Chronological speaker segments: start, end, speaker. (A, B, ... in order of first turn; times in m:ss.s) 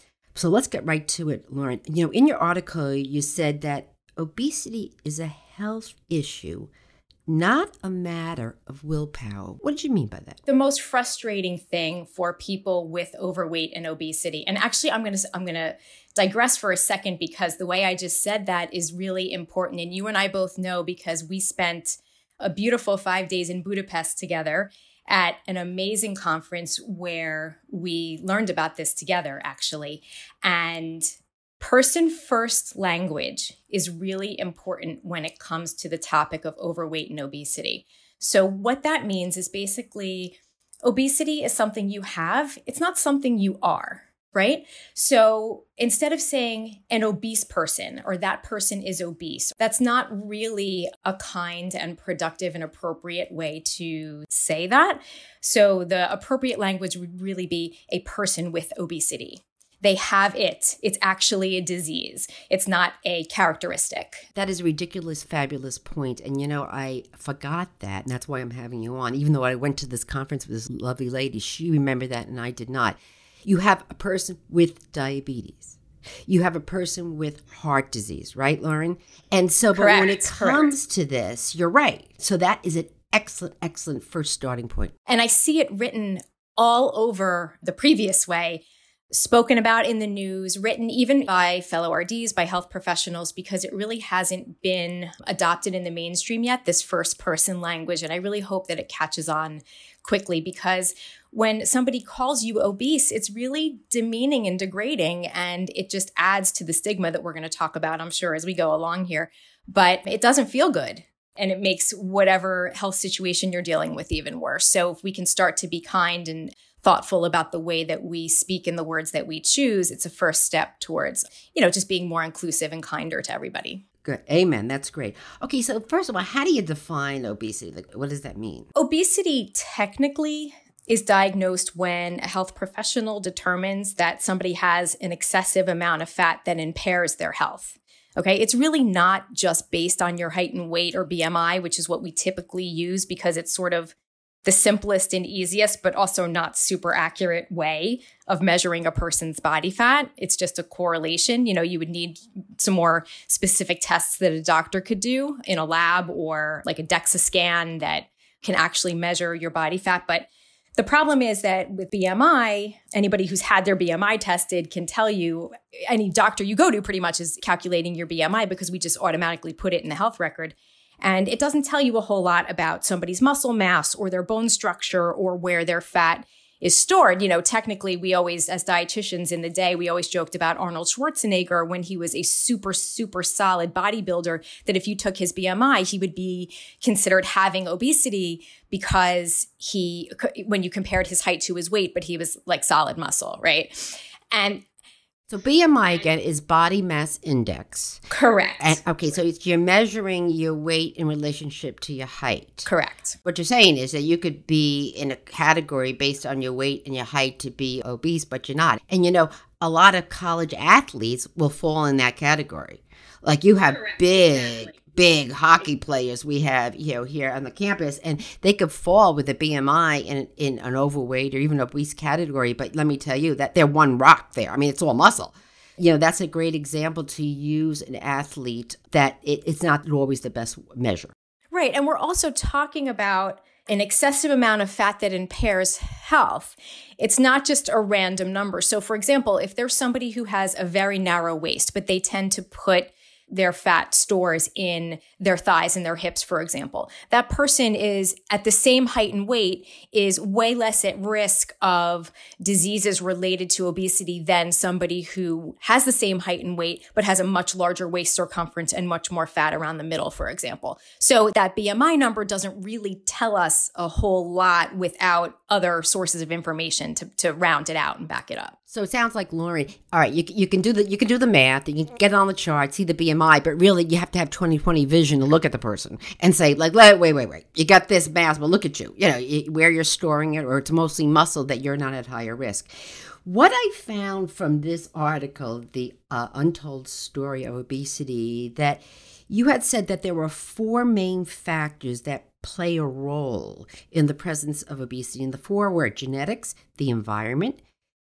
0:00.4-0:06.7 A
0:07.3-0:10.4 A
0:10.5-1:04.3 B
1:04.4-1:24.9 A
1:19.7-1:20.7 B
1:25.1-2:03.8 B
2:04.0-2:08.7 A
2:08.8-2:23.9 B
2:24.4-3:14.6 B
3:15.3-3:18.0 A
3:18.1-3:18.8 B
3:18.6-3:22.7 A
3:22.6-3:23.2 B
3:23.2-3:51.1 A
3:51.5-4:28.6 B
4:28.7-4:57.6 A